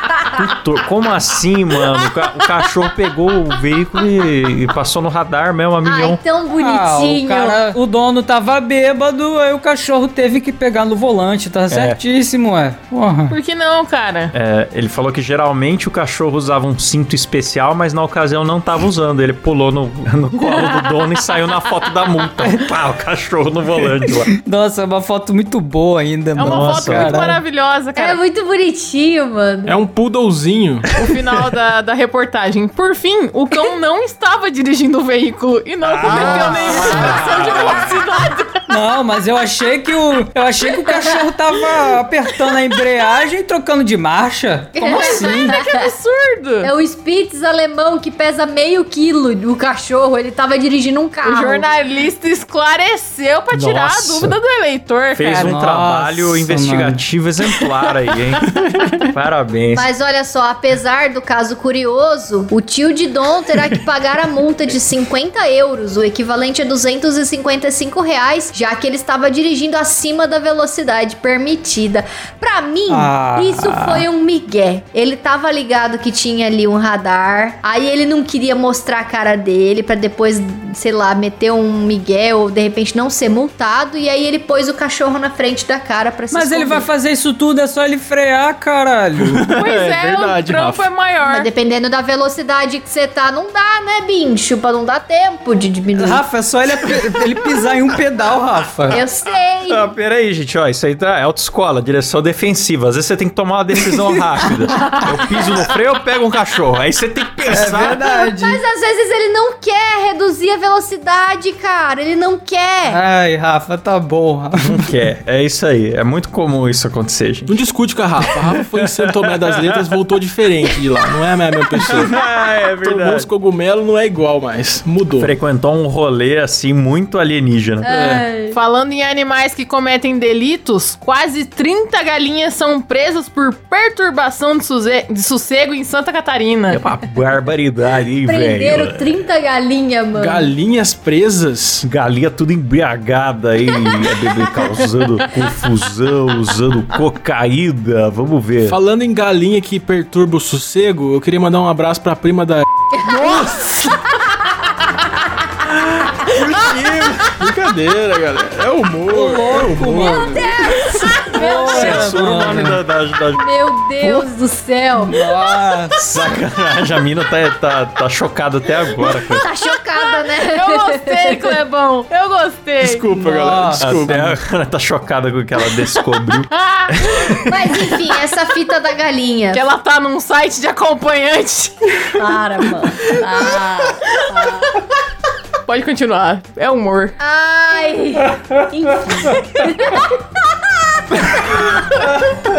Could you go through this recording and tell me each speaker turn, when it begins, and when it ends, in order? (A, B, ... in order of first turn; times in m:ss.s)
0:00.3-0:06.2 A
0:05.8-0:07.6 B
0:06.6-0:13.4 C
0:11.7-0:12.0 A
0:13.3-0:14.3 D
0:14.3-0:24.3 A
0:20.6-0:21.0 D
0:24.2-0:27.4 C
0:26.4-0:28.2 D
0:26.4-0:27.2 A
0:28.0-0:29.8 B
0:29.6-0:30.9 E
0:30.9-0:38.6 D
0:35.8-0:38.0 A
0:36.1-0:37.2 C
0:38.7-0:45.5 C
0:44.8-0:45.7 B
0:44.9-0:46.7 D
0:46.6-0:51.6 B
0:51.2-0:55.6 D
0:53.5-0:54.4 A
0:55.1-0:59.9 A
0:55.5-0:57.0 C
0:59.7-1:26.9 B
1:12.9-1:14.0 C
1:26.3-1:29.4 C
1:29.2-1:30.9 E
1:29.5-1:31.5 D
1:31.2-1:36.2 B
1:36.0-1:39.0 C
1:38.9-1:39.9 B
1:39.6-1:48.0 A
1:47.5-1:48.6 C
1:47.9-1:53.0 B
1:52.8-1:54.9 C
1:54.6-1:57.6 A
1:57.5-2:05.3 E
2:01.8-2:03.3 A
2:05.2-2:07.9 A
2:07.8-2:08.6 B
2:07.9-2:08.2 E
2:08.5-2:16.8 D
2:16.7-2:19.2 A
2:18.2-2:20.5 B
2:20.1-2:21.8 E
2:21.8-2:28.8 A
2:28.6-2:33.7 E
2:32.9-2:34.0 B
2:36.3-2:37.2 A
2:37.4-2:40.4 E
2:39.1-2:42.8 C
2:40.1-2:42.3 B
2:41.7-2:43.4 A
2:43.4-2:45.2 B
2:45.0-2:46.0 C
2:46.0-2:49.4 A
2:49.0-2:51.5 B
2:50.0-2:53.1 D
2:52.8-2:54.4 E
2:53.1-2:53.8 C
2:53.8-2:57.5 A
2:56.4-2:58.1 D
2:57.4-2:59.6 B
2:59.5-3:02.1 D
3:02.2-3:04.6 B
3:03.1-3:04.5 D
3:05.6-3:07.2 D
3:07.2-3:10.2 B